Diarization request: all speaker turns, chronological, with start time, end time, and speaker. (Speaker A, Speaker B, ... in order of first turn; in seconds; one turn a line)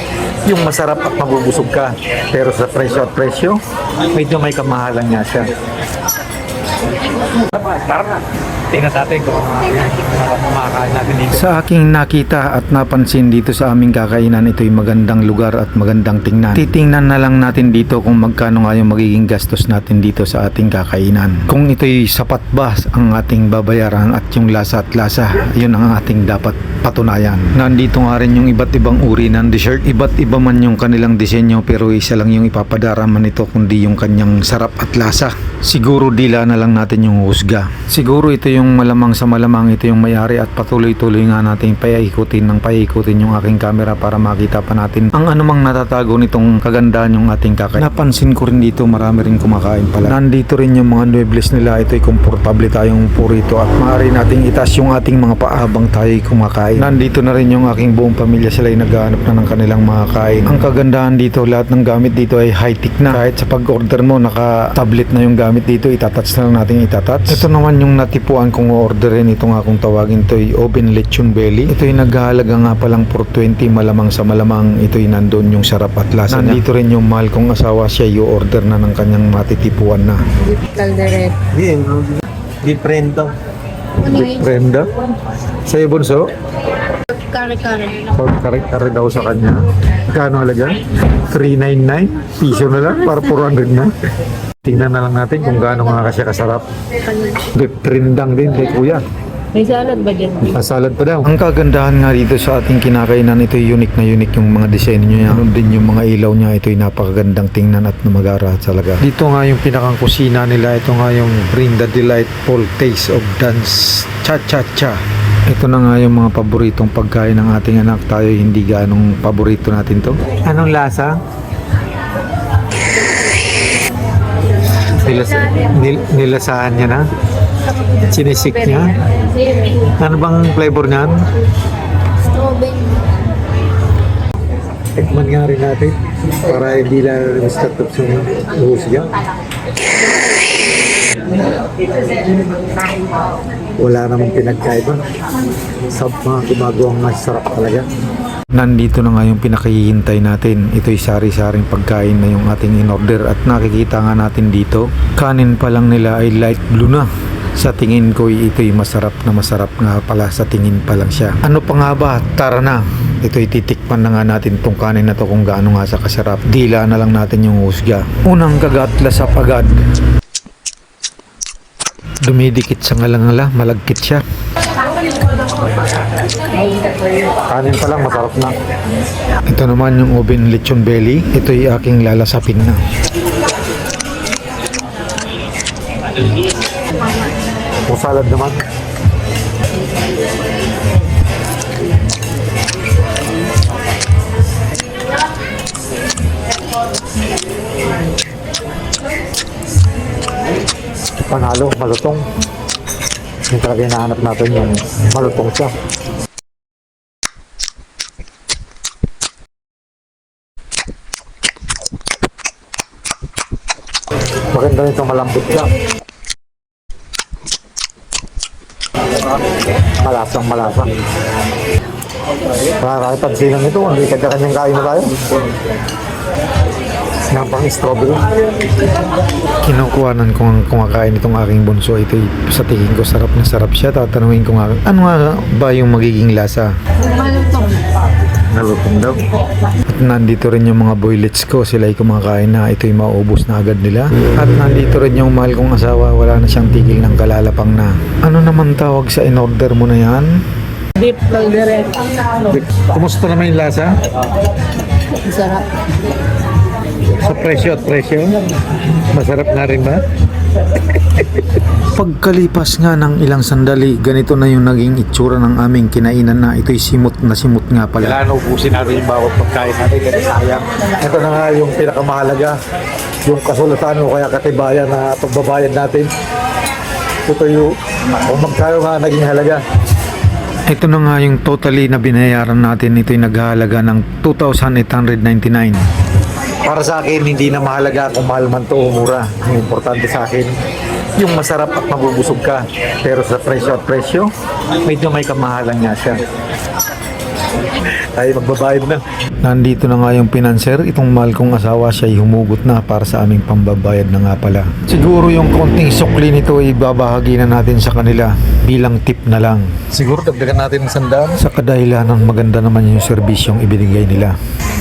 Speaker A: 0.5-3.6
Speaker A: 4.1-5.5
Speaker A: 7.3-11.5
Speaker B: 11.3-80.2
Speaker C: 80.4-81.4
Speaker A: 81.5-83.3
Speaker A: 84.0-84.9
Speaker A: 85.7-86.3
Speaker C: 87.2-88.1
Speaker A: 88.1-93.9
Speaker A: 94.6-96.6
Speaker A: 97.5-99.0
Speaker C: 99.5-100.5
Speaker A: 100.4-101.3
Speaker B: 101.2-120.2
Speaker A: 120.4-121.1
Speaker A: 125.0-127.0
Speaker A: 128.0-129.0
Speaker A: 129.8-131.2
Speaker C: 132.3-133.0
Speaker A: 134.9-139.1
Speaker A: 143.8-145.0
Speaker A: 145.9-147.9
Speaker B: 148.6-169.8
Speaker B: 172.2-174.2
Speaker A: 177.5-178.5
Speaker B: 179.5-182.8
Speaker A: 187.9-188.6
Speaker A: 201.3-202.2
Speaker A: 203.5-205.7
Speaker A: 214.5-215.7
Speaker A: 220.0-220.9
Speaker A: 222.8-225.2
Speaker A: 227.3-228.2
Speaker B: 229.6-236.7
Speaker C: 237.1-237.8
Speaker A: 238.5-239.2
Speaker B: 239.9-250.3
Speaker C: 251.0-252.0
Speaker A: 252.4-254.0
Speaker C: 255.2-255.7
Speaker A: 257.1-258.3
Speaker A: 259.0-260.0
Speaker A: 260.8-261.4
Speaker B: 261.9-268.2
Speaker A: 268.0-272.6
Speaker A: 273.2-276.1
Speaker A: 277.2-277.7
Speaker A: 278.2-279.6
Speaker B: 280.7-285.8
Speaker A: 286.6-290.5
Speaker A: 291.2-294.3
Speaker A: 294.8-296.2
Speaker A: 298.1-299.0
Speaker B: 299.4-309.8
Speaker A: 309.9-311.4
Speaker B: 311.4-314.3